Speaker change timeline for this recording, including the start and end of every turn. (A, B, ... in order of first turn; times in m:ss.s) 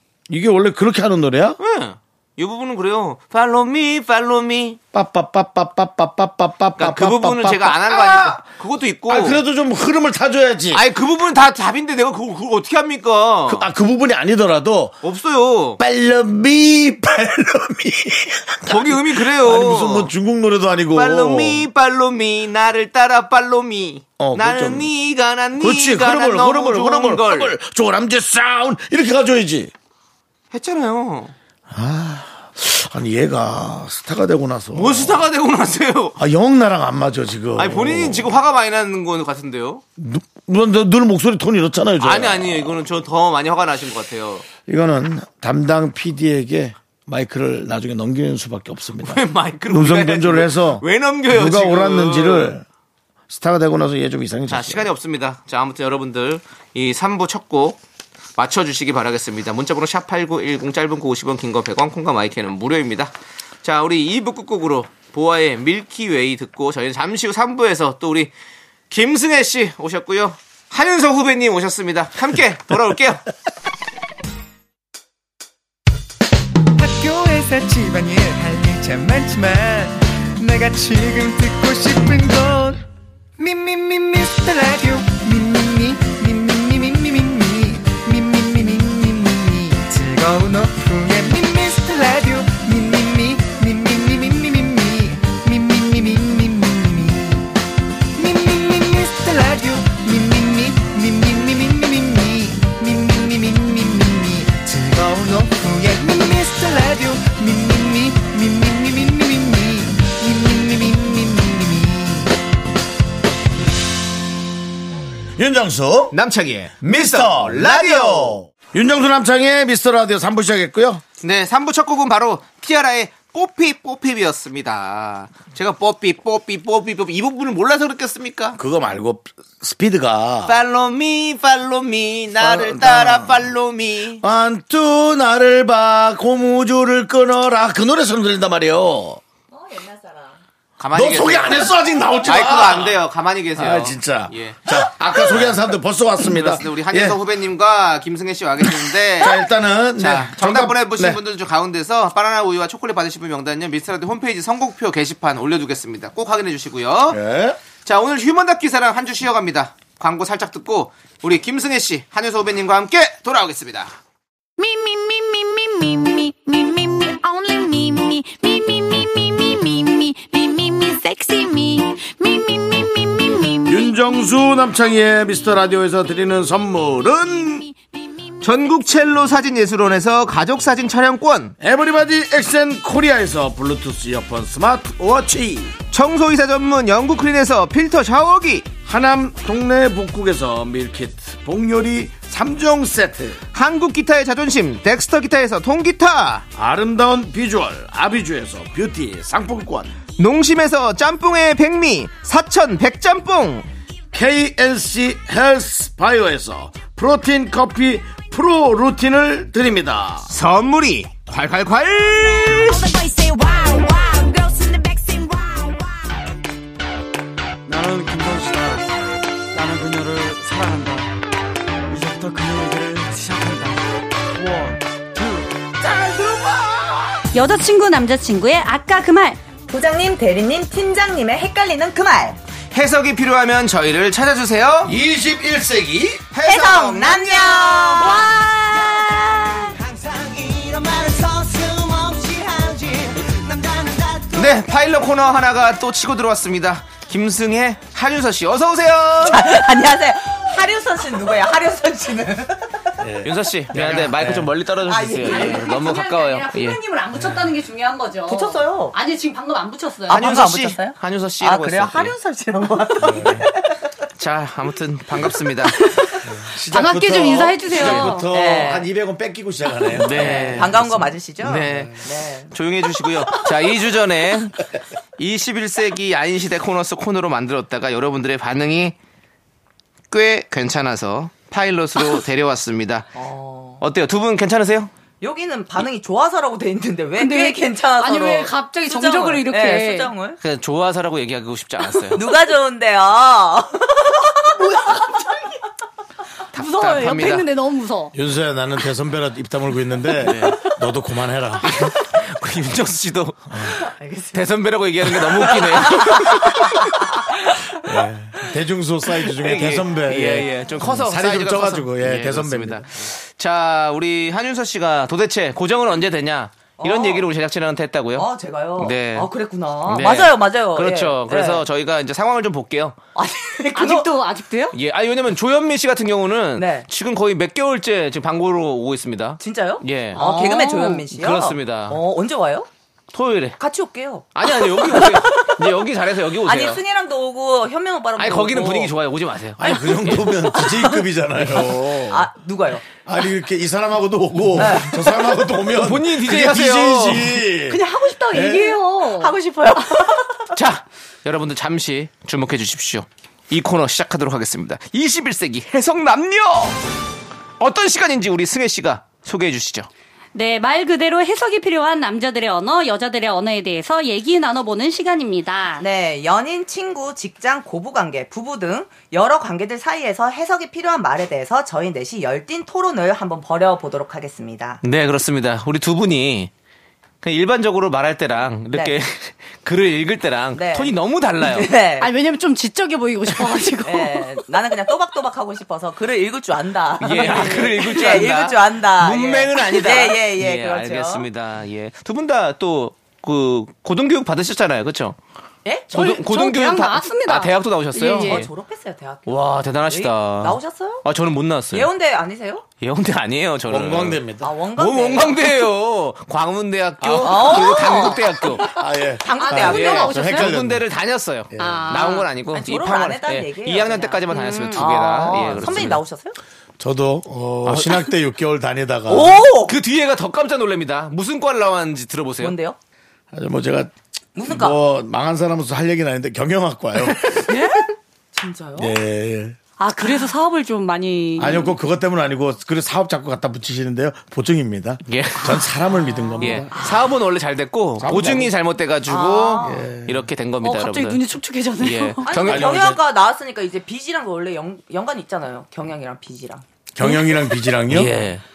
0:00.3-0:01.6 A
0:01.6-0:04.8 B
0:04.9-0:08.4 A
0:06.8-0:09.4 B
0:09.1-0:10.8 A
0:10.7-0:13.7 B
0:13.5-0:15.0 A
0:15.0-0:15.8 B
0:15.8-0:21.6 A
0:18.6-0:20.1 B
0:20.9-0:27.5 B
0:24.2-0:24.9 A
0:25.6-0:29.7 A
0:30.5-0:31.3 B
0:31.7-0:35.2 A
0:34.7-0:36.2 B
0:36.2-0:38.3 A
0:37.6-0:39.8 B
0:40.0-0:42.8 A
0:42.0-0:44.4 B
0:44.6-0:52.6 A
0:49.0-0:52.6 B
0:53.3-0:54.9 A
0:54.5-0:57.8 B
0:58.4-1:08.3 B
1:08.9-1:13.2 B
1:16.8-1:22.8 C
1:23.4-1:37.5 C
1:38.2-1:52.3 C
1:55.4-1:56.1 A
1:56.1-1:58.4 B
1:56.8-2:01.0 A
2:01.2-2:08.6 B
2:08.6-2:10.6 A
2:10.4-2:14.2 B
2:12.4-2:13.4 A
2:14.2-2:19.2 A
2:19.5-2:20.4 D
2:20.8-2:25.6 B
2:20.9-2:23.0 A
2:23.5-2:27.2 A
2:26.2-2:29.4 B
2:28.6-2:31.2 A
2:30.0-2:37.2 B
2:37.1-2:37.6 A
2:37.8-2:43.9 B
2:44.6-2:53.9 E
2:53.6-2:57.7 A
2:57.4-2:57.8 E
2:58.4-3:01.5 B
3:01.6-3:05.8 A
3:05.9-3:08.7 B
3:08.8-3:13.4 A
3:13.5-3:16.4 B
3:16.5-3:20.0 A
3:20.2-3:23.6 B
3:24.1-3:30.3 A
3:30.3-3:32.8 B
3:32.2-3:36.2 E
3:37.6-3:38.9 F
3:39.5-3:41.1 F
3:41.9-3:43.8 F
3:44.3-3:45.5 F
3:45.8-3:47.2 A
3:47.3-3:49.4 G
3:49.7-3:52.4 D
3:52.7-3:54.9 B
3:54.8-3:56.3 A
3:56.3-3:58.1 B
3:56.4-3:58.2 D
3:58.0-3:59.6 G
4:00.0-4:04.2 E
4:04.3-4:09.4 B
4:09.2-4:12.9 D
4:13.0-4:14.5 A
4:13.2-4:16.8 B
4:14.8-4:15.8 D
4:15.2-4:20.3 G
4:17.1-4:17.5 A
4:18.3-4:18.9 D
4:20.1-4:23.8 D
4:20.1-4:22.2 B
4:23.0-4:23.5 A
4:24.2-4:25.8 B
4:25.8-4:26.1 G
4:26.2-4:30.7 A
4:26.7-4:28.3 G
4:28.3-4:28.9 D
4:29.9-4:34.6 B
4:30.0-4:32.5 D
4:35.2-4:39.0 B
4:40.1-4:43.1 B
4:43.1-4:43.8 D
4:43.8-4:44.9 B
4:45.2-4:50.4 D
4:47.2-4:50.1 G
4:50.4-4:52.2 B
4:52.1-4:55.3 D
4:56.5-4:57.4 B
4:56.5-4:58.1 G
4:58.1-5:01.9 A
5:00.2-5:00.6 B
5:01.6-5:03.8 B
5:03.7-5:04.4 D
5:04.3-5:06.9 B
5:05.4-5:07.7 D
5:07.7-5:13.0 A
5:09.4-5:19.3 B
5:16.8-5:17.3 D
5:18.1-5:21.6 D
5:19.8-5:23.0 B
5:23.1-5:24.1 D
5:23.7-5:24.7 G
5:24.7-5:30.2 B
5:26.6-5:26.9 D
5:29.4-5:32.7 D
5:30.1-5:31.1 G
5:31.1-5:32.0 B
5:33.1-5:33.6 B
5:33.6-5:35.5 D
5:34.3-5:36.8 B
5:36.4-5:38.9 D
5:38.2-5:40.3 B
5:39.6-5:42.3 A
5:40.0-5:41.0 D
5:41.9-5:42.9 D
5:43.0-5:48.8 A
5:44.6-5:45.3 D
5:45.7-5:47.4 B
5:47.7-5:49.4 G
5:49.0-5:50.5 D
5:50.5-5:56.8 B
5:57.6-5:59.9 B
6:00.3-6:05.8 G
6:05.8-6:14.8 D
6:14.8-6:16.5 B
6:17.2-6:21.7 B
6:20.5-6:22.1 D
6:22.0-6:24.4 G
6:23.8-6:31.3 D
6:27.0-6:35.2 B
6:27.2-6:27.9 G
6:35.6-6:35.9 D
6:35.9-6:38.5 B
6:35.9-6:38.4 G
6:38.1-6:41.0 D
6:39.2-6:41.9 B
6:41.7-6:42.6 D
6:42.8-6:44.2 B
6:43.7-6:44.5 A
6:44.4-6:45.5 D
6:44.7-6:48.7 B
6:47.0-6:47.9 A
6:47.2-6:48.2 D
6:48.6-6:50.8 A
6:49.2-6:50.2 D
6:49.3-6:50.5 G
6:49.7-6:56.0 B
6:51.5-6:51.9 A
6:51.6-6:52.3 G
6:52.4-6:56.4 D
6:54.3-6:55.5 G
6:56.8-6:59.4 A
6:57.6-6:58.1 B
6:59.1-6:59.8 D
6:59.6-7:02.6 B
7:02.4-7:02.8 D
7:03.3-7:03.9 A
7:04.4-7:04.8 D
7:04.4-7:07.5 A
7:07.5-7:07.9 G
7:08.3-7:09.0 D
7:08.8-7:09.6 A
7:09.8-7:11.7 G
7:11.4-7:16.7 A
7:15.1-7:15.7 B
7:15.9-7:16.6 D
7:16.4-7:21.2 B
7:18.0-7:18.5 A
7:19.1-7:19.9 D
7:19.6-7:20.3 A
7:20.6-7:22.4 G
7:21.8-7:22.9 B
7:22.2-7:26.6 D
7:22.4-7:23.0 A
7:26.9-7:28.1 A
7:27.9-7:28.4 B